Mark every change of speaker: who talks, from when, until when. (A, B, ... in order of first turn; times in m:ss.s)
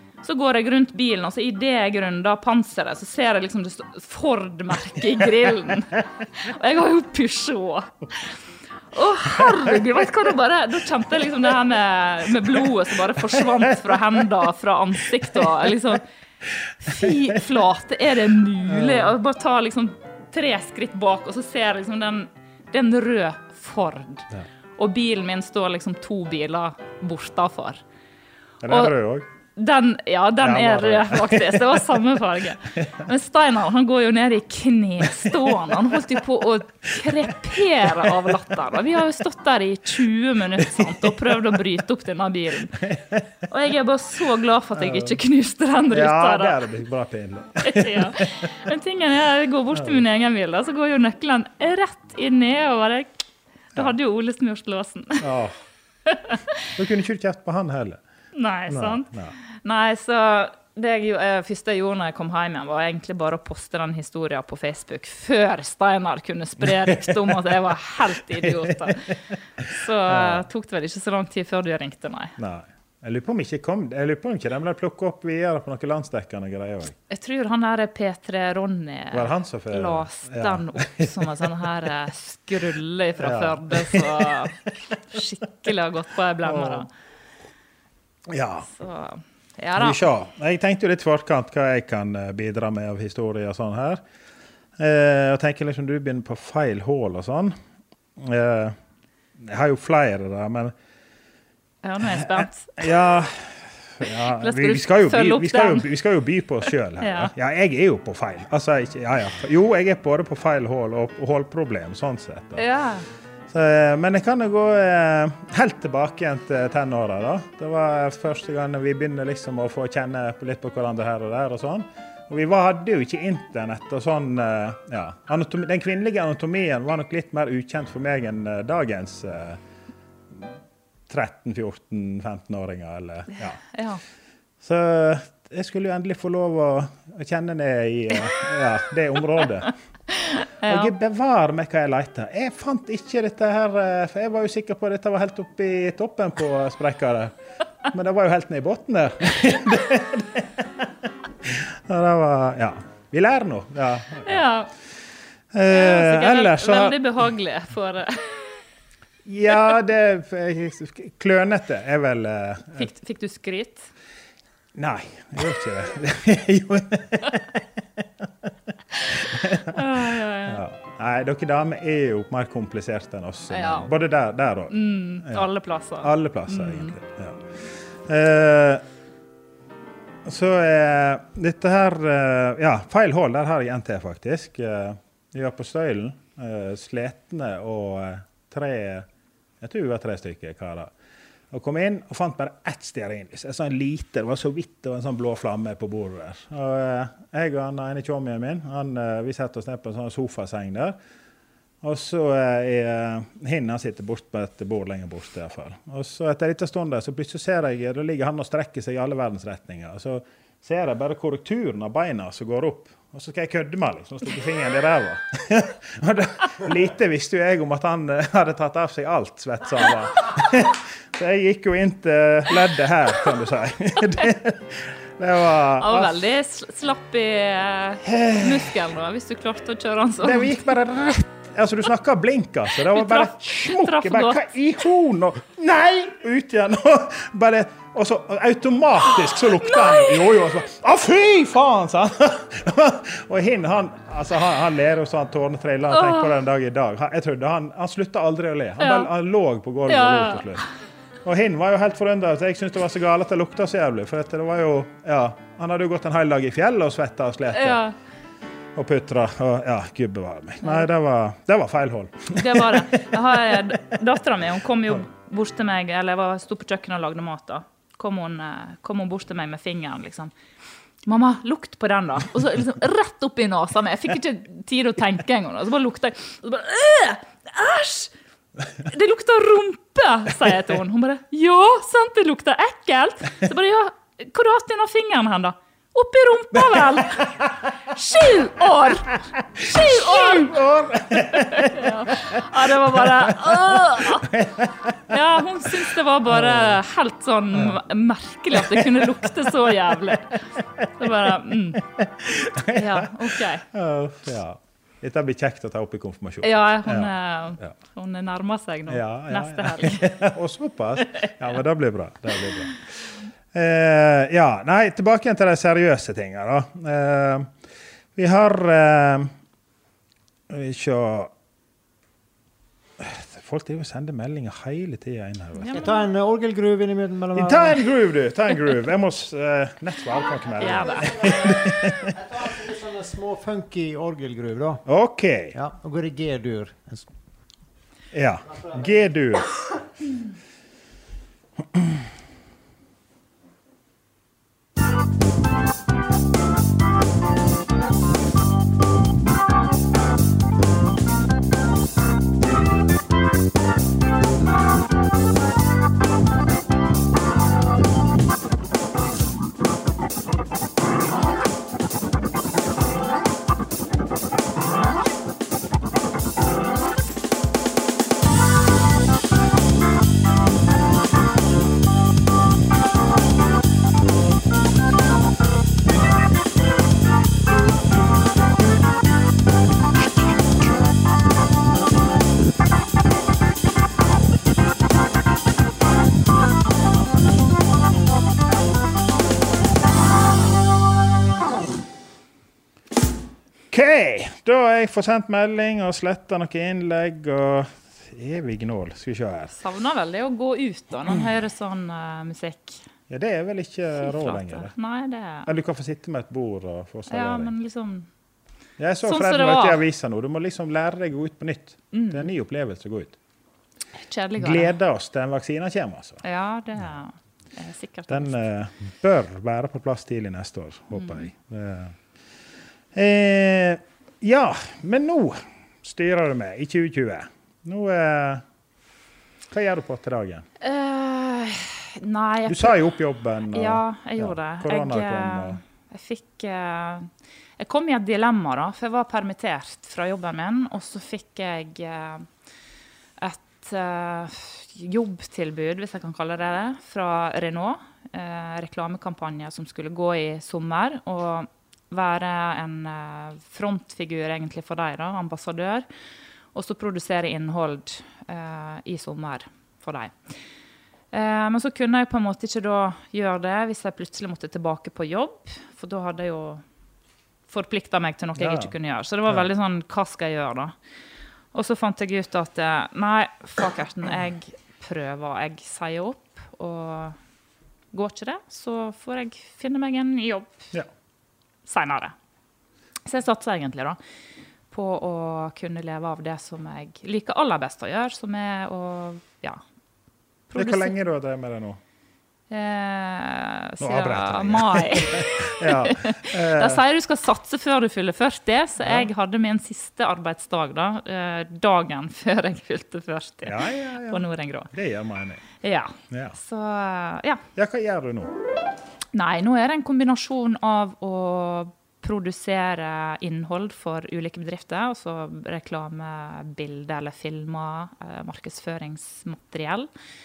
0:00.2-0:08.4 A
0:08.9-0:16.0 A
0:13.2-0:14.2 B
0:16.6-0:17.4 B
0:16.8-0:27.8 A
0:18.6-0:19.2 B
0:28.6-0:29.3 B
0:28.7-0:28.9 A
0:29.6-0:42.8 A
0:30.4-0:32.0 B
0:35.2-0:35.9 B
0:37.8-0:38.3 B
0:40.6-0:41.6 B
0:42.8-0:43.3 B
0:43.5-0:46.6 A
0:44.8-0:45.2 B
0:45.9-0:48.5 B
0:47.6-0:53.2 A
0:49.7-0:50.0 B
0:53.8-0:55.2 A
0:55.2-0:55.6 B
0:56.1-0:56.4 A
0:56.8-0:58.0 B
0:58.4-0:59.1 A
0:58.7-0:59.4 B
0:59.6-1:12.4 A
1:06.6-1:07.5 B
1:08.4-1:09.0 B
1:10.1-1:10.5 B
1:12.4-1:17.0 B
1:17.1-1:24.5 A
1:19.1-1:21.6 B
1:23.2-1:24.7 B
1:25.1-1:26.9 A
1:26.4-1:26.9 B
1:28.3-1:28.7 B
1:28.7-1:30.0 A
1:29.8-1:34.0 B
1:34.8-1:37.6 B
1:38.2-1:38.8 B
1:39.4-1:40.8 B
1:41.8-1:42.8 A
1:42.0-1:52.7 B
1:44.1-1:45.9 A
1:47.0-1:47.3 A
1:52.6-1:53.1 A
1:53.5-2:09.6 B
2:11.1-2:13.7 B
2:13.7-2:14.0 A
2:14.6-2:19.7 B
2:20.1-2:20.9 A
2:20.7-2:27.4 B
2:27.9-2:30.9 B
2:31.4-2:34.5 B
2:34.3-2:34.7 A
2:35.5-2:37.0 B
2:35.7-2:38.6 A
2:39.2-2:42.9 B
2:42.8-2:43.9 A
2:44.8-2:55.5 B
2:49.7-2:50.6 A
2:53.5-2:53.9 A
2:54.7-2:57.0 A
2:56.0-2:58.8 B
3:00.2-3:09.1 B
3:09.6-3:10.9 B
3:11.5-3:21.0 B
3:21.8-3:46.2 B
3:45.8-3:50.6 A
3:48.0-3:48.8 B
3:50.2-4:10.7 B
3:52.8-3:54.5 A
3:59.6-4:00.2 A
4:05.9-4:06.4 A
4:08.8-4:09.1 A
4:09.9-4:10.7 A
4:11.2-4:17.8 B
4:17.5-4:18.0 A
4:18.8-4:23.7 B
4:20.6-4:20.9 A
4:22.3-4:30.3 A
4:31.1-4:38.1 A
4:38.8-4:50.5 A
4:46.5-4:47.6 B
4:49.6-4:55.2 B
4:51.3-4:54.4 A
4:55.1-5:00.4 A
4:56.3-4:56.8 B
4:57.5-4:57.8 B
4:58.5-4:59.3 B
5:01.0-5:01.8 A
5:01.5-5:07.8 B
5:02.7-5:03.6 A
5:06.4-5:10.1 A
5:08.9-5:17.5 B
5:18.2-5:19.3 B
5:20.5-5:21.3 B
5:23.0-5:25.8 B
5:25.6-5:26.1 A
5:25.7-5:27.8 C
5:27.3-5:32.1 B
5:30.6-5:31.1 A
5:30.6-5:34.8 C
5:34.8-5:35.6 B
5:35.5-5:37.1 C
5:38.1-5:39.5 B
5:38.4-5:39.1 C
6:33.7-6:39.6 B
6:39.5-6:42.8 A
6:43.1-6:44.8 B
6:44.0-6:45.5 A
6:45.4-6:47.5 B
6:47.1-6:48.1 A
6:48.8-6:53.2 B
6:49.0-6:49.8 A
6:51.9-6:52.3 A
6:54.0-6:54.8 A
6:54.4-6:56.2 B
6:56.2-6:58.4 A
6:58.1-7:02.0 B
7:00.9-7:01.3 A
7:02.9-7:08.4 B
7:09.5-7:10.5 B
7:10.6-7:12.8 A
7:12.5-7:15.6 B
7:13.5-7:22.3 A
7:23.2-7:35.9 A
7:36.5-7:40.3 A
7:41.1-7:46.6 A
7:47.5-7:50.8 A
7:48.4-7:48.7 B
7:51.5-7:57.2 A
7:57.9-8:00.7 A
8:01.7-8:02.2 A
8:03.1-8:04.0 A
8:04.7-8:09.6 A
8:10.5-8:10.9 A
8:10.6-8:11.8 B
8:12.5-8:24.7 A
8:13.8-8:16.8 B
8:18.8-8:19.1 B
8:23.4-8:25.5 B
8:25.6-8:27.4 A
8:26.1-8:26.4 B
8:27.6-8:28.4 B
8:29.1-8:39.9 A